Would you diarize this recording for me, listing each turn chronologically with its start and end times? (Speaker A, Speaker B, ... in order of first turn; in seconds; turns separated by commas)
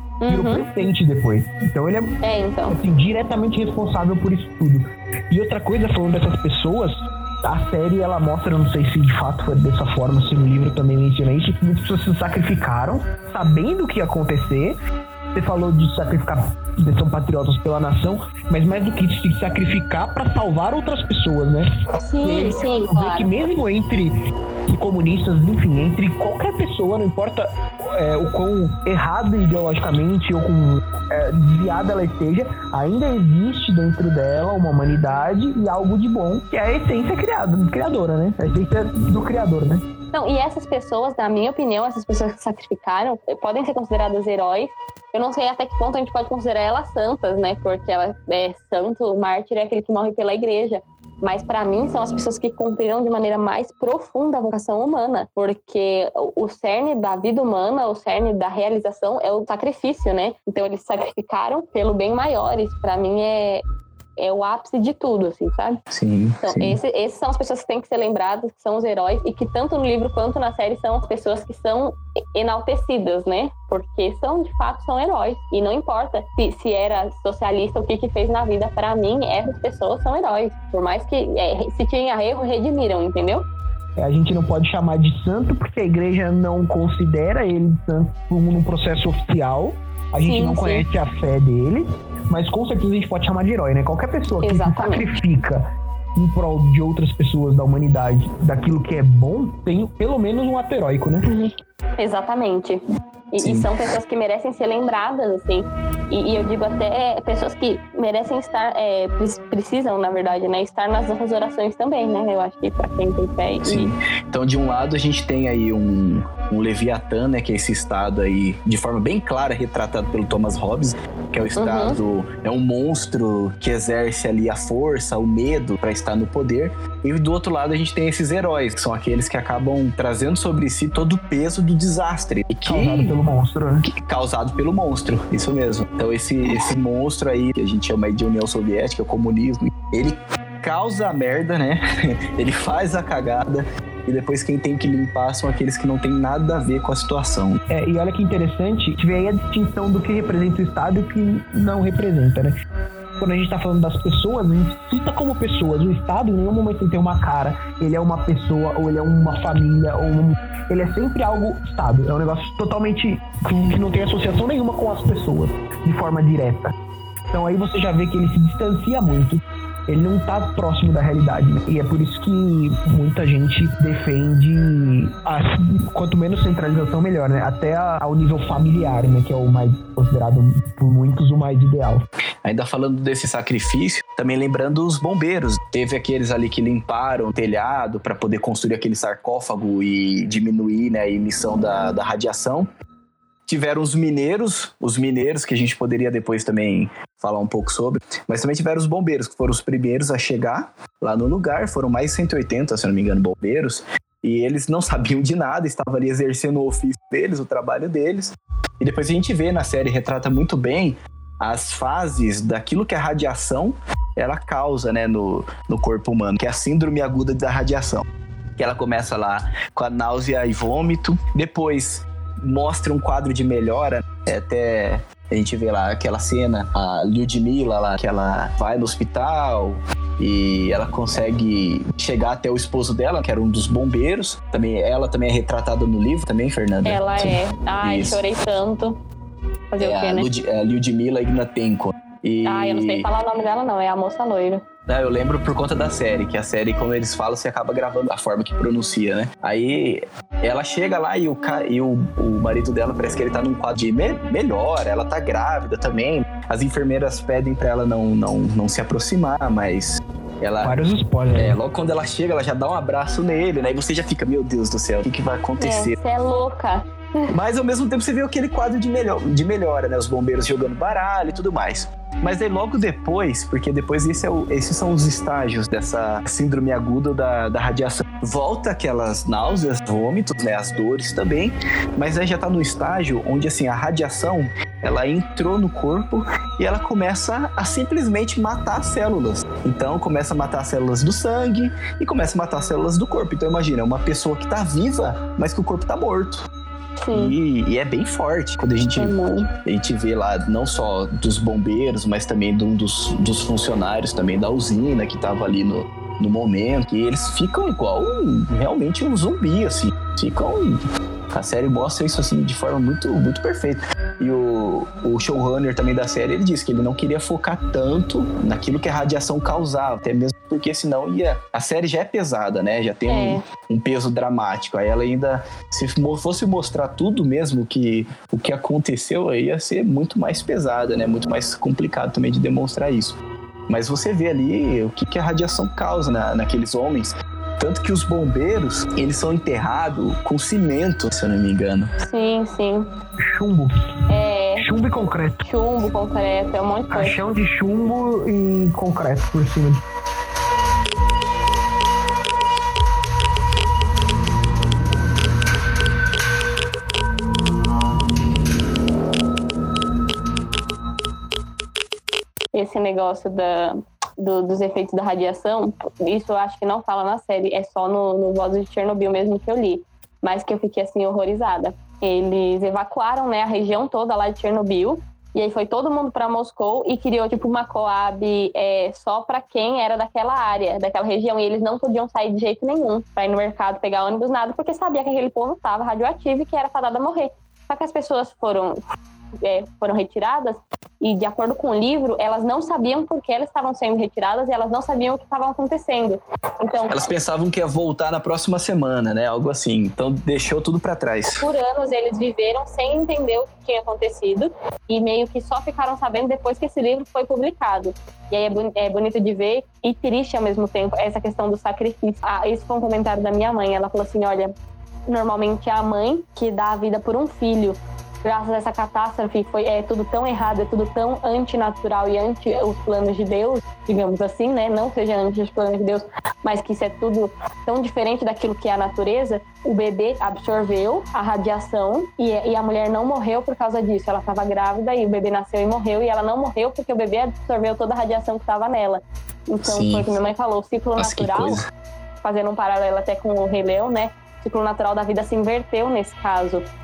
Speaker A: 0.2-0.7, Speaker B: 0.3-2.1, Speaker A: 2.2-2.8, Speaker B: 2.7-14.8, Speaker B: 15.3-21.7, Speaker A: 21.9-23.3, Speaker B: 22.2-24.2, Speaker B: 24.7-39.8, Speaker A: 40.1-63.6, Speaker A: 64.2-65.8, Speaker C: 65.9-66.8, Speaker A: 66.4-83.5, Speaker B: 84.0-101.3, Speaker A: 90.2-90.8, Speaker A: 94.4-95.1, Speaker A: 101.3-102.8, Speaker A: 103.3-113.9, Speaker C: 103.4-103.7, Speaker C: 113.6-133.2, Speaker A: 121.6-122.0, Speaker B: 132.7-133.9, Speaker C: 133.8-147.6, Speaker B: 147.7-152.6, Speaker B: 153.2-166.7, Speaker B: 167.3-182.1, Speaker C: 182.4-192.7, Speaker C: 193.5-218.1, Speaker C: 218.6-238.2, Speaker A: 236.8-239.0, Speaker A: 239.7-240.3, Speaker C: 239.8-243.1, Speaker A: 242.4-244.7, Speaker C: 244.9-260.8, Speaker B: 260.6-261.6, Speaker C: 261.4-266.0, Speaker A: 265.6-267.3, Speaker C: 267.3-296.5, Speaker A: 297.0-297.4, Speaker C: 297.1-333.2, Speaker A: 299.0-299.5, Speaker A: 323.1-323.4, Speaker C: 333.7-341.9, Speaker A: 342.0-342.9, Speaker B: 343.2-343.8, Speaker A: 344.1-344.7, Speaker B: 344.6-345.4, Speaker A: 345.4-347.2, Speaker B: 346.9-349.8, Speaker A: 362.5-388.8, Speaker A: 389.4-397.0, Speaker C: 396.9-401.4, Speaker A: 401.4-414.5, Speaker A: 415.1-441.6, Speaker C: 439.6-440.1, Speaker C: 441.0-441.7, Speaker A: 442.2-446.6